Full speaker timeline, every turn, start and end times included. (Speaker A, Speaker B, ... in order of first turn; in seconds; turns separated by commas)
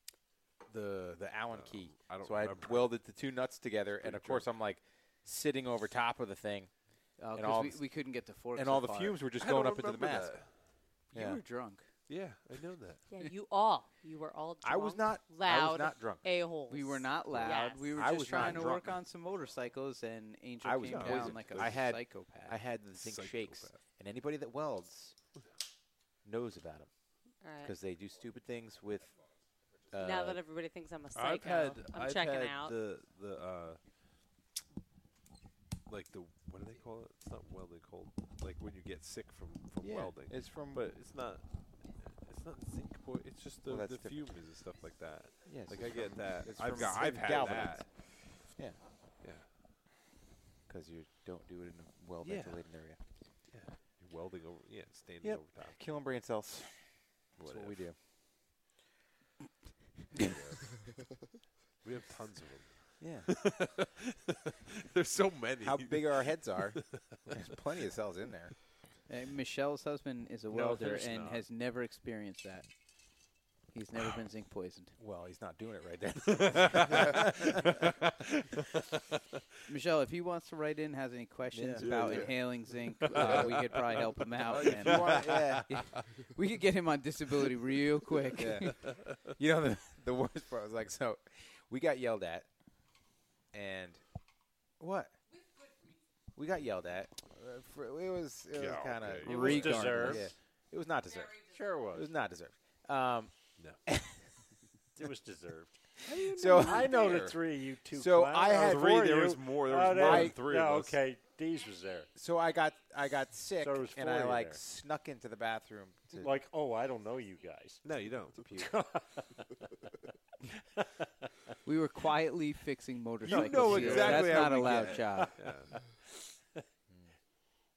Speaker A: 0.7-6.7, Speaker B: 1.5-3.0, Speaker B: 4.0-4.5, Speaker C: 7.2-9.2, Speaker A: 7.3-8.0, Speaker A: 8.5-10.3, Speaker B: 9.4-10.5, Speaker C: 11.1-11.8, Speaker A: 11.1-11.4, Speaker B: 12.1-13.1, Speaker D: 13.1-18.7, Speaker A: 14.6-16.3, Speaker C: 16.7-22.6, Speaker A: 17.9-19.0, Speaker A: 20.6-25.2, Speaker B: 20.9-21.9, Speaker B: 22.9-23.8, Speaker A: 26.2-26.9, Speaker D: 27.4-27.8, Speaker A: 27.6-29.2, Speaker A: 29.9-30.4, Speaker D: 30.0-32.8, Speaker B: 31.1-34.0, Speaker B: 35.9-47.9, Speaker A: 39.8-40.8, Speaker A: 43.7-44.2, Speaker A: 45.5-48.8, Speaker B: 49.2-49.5, Speaker A: 50.7-53.0, Speaker B: 52.2-52.6, Speaker B: 53.5-55.8, Speaker A: 55.2-58.0, Speaker B: 57.4-57.8, Speaker B: 60.2-60.8, Speaker B: 61.8-64.1, Speaker A: 63.0-63.3, Speaker B: 64.9-67.2, Speaker A: 65.6-68.5, Speaker C: 69.1-72.7, Speaker A: 70.5-71.3, Speaker C: 73.7-74.9, Speaker A: 75.0-78.0, Speaker B: 76.3-77.2, Speaker C: 79.7-85.2, Speaker A: 81.5-82.3, Speaker B: 81.8-86.0, Speaker A: 83.1-83.9, Speaker A: 84.5-85.9, Speaker C: 85.7-88.8, Speaker A: 88.4-92.5, Speaker B: 88.9-89.2, Speaker A: 93.5-94.0, Speaker A: 94.8-95.2, Speaker A: 96.4-103.3, Speaker B: 98.5-100.2, Speaker C: 99.3-100.3, Speaker E: 99.3-100.3, Speaker E: 101.4-102.1, Speaker A: 103.9-104.3, Speaker E: 105.0-112.1, Speaker B: 106.1-107.1, Speaker A: 106.2-109.4, Speaker B: 108.6-111.0, Speaker A: 109.9-110.4, Speaker A: 112.2-116.4, Speaker E: 113.6-114.6, Speaker E: 116.1-117.8, Speaker B: 117.8-118.4, Speaker E: 118.5-119.4, Speaker C: 121.7-125.3, Speaker A: 123.2-125.0, Speaker B: 123.3-125.8, Speaker E: 123.4-124.4, Speaker E: 125.1-126.0